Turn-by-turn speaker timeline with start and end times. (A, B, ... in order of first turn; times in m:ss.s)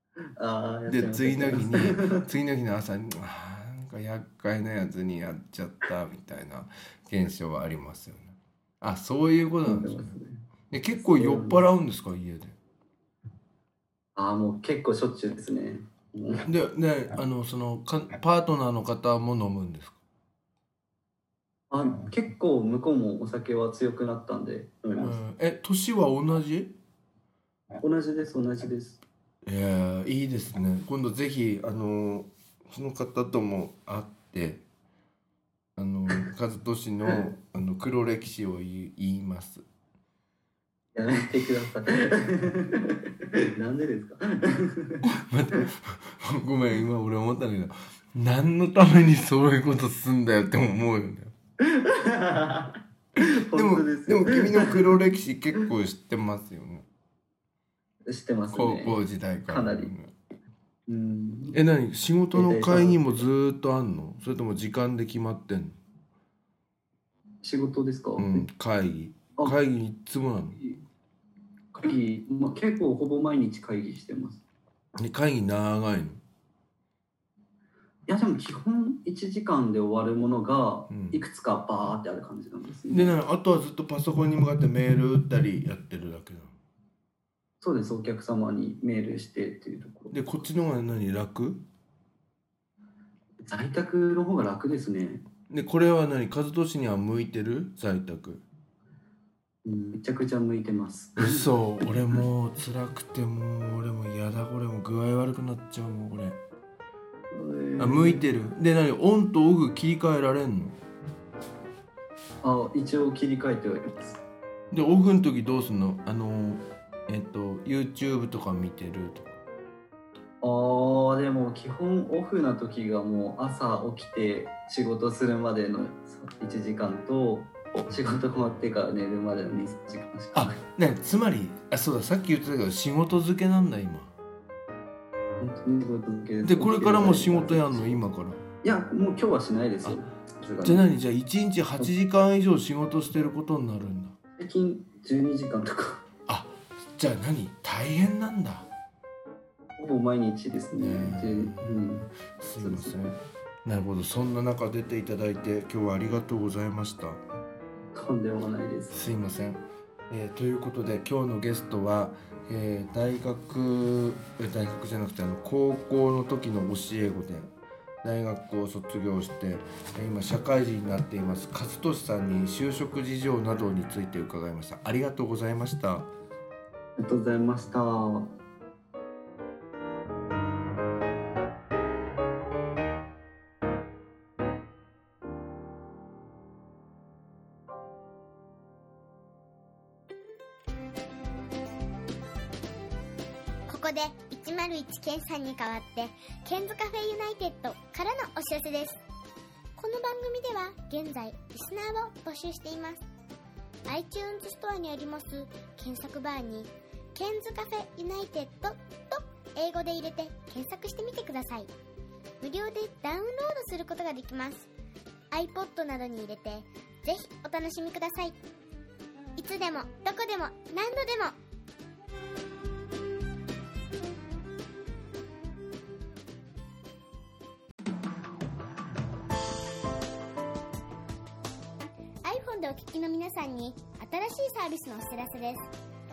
0:00.4-0:02.3 A
0:00.9-0:10.2 B
0:09.7-0:10.4 A
0:10.7-0:12.6 B
0:11.0-0:11.6 A
0:14.2-0:16.5 A
0:16.4-0:20.0 B
0:21.7-0:25.2 A
0:25.0-0:26.7 B
0:27.8-0:29.0 A
0:29.5-0:34.6 B
0:35.8-0:39.6 B
0:41.0-0:45.1 A
0:45.0-0:51.3 B
0:51.6-0:55.0 A
0:53.2-0:56.9 B
0:58.1-0:59.9 A
0:58.5-1:00.1 B
1:00.9-1:01.6 A
1:01.5-1:05.8 B
1:02.3-1:03.2 A
1:07.4-1:08.4 A
1:08.2-1:10.6 B
1:11.7-1:14.4 A
1:15.0-1:16.2 B
1:18.1-1:23.2 A
1:20.9-1:21.2 B
1:22.9-1:26.5 B
1:27.6-1:30.2 A
1:30.1-1:31.6 B
1:33.5-1:35.2 A
1:35.5-1:38.4 B
1:39.6-1:41.5 A
1:41.2-1:46.4 B
1:47.3-1:48.3 A
1:47.8-1:50.8 B
1:52.4-1:54.2 A
1:54.7-1:59.4 B
2:00.4-2:10.6 A
2:10.3-2:14.1 B
2:15.4-2:17.9 A
2:16.4-2:18.4 B
2:18.6-2:20.9 A
2:20.6-2:24.2 B
2:24.4-2:26.0 A
2:26.3-2:28.7 B
2:29.8-2:32.1 A
2:30.8-2:37.2 B
2:32.6-2:33.0 A
2:37.9-2:39.0 A
2:38.9-2:47.5 B
2:48.0-2:56.1 B
2:57.0-2:58.3 A
3:13.7-3:19.0 C
3:19.8-3:23.0 C
3:23.9-3:31.7 C
3:32.4-3:34.7 C
3:35.3-3:38.4 C
3:39.4-3:41.4 C
3:52.2-3:55.7 C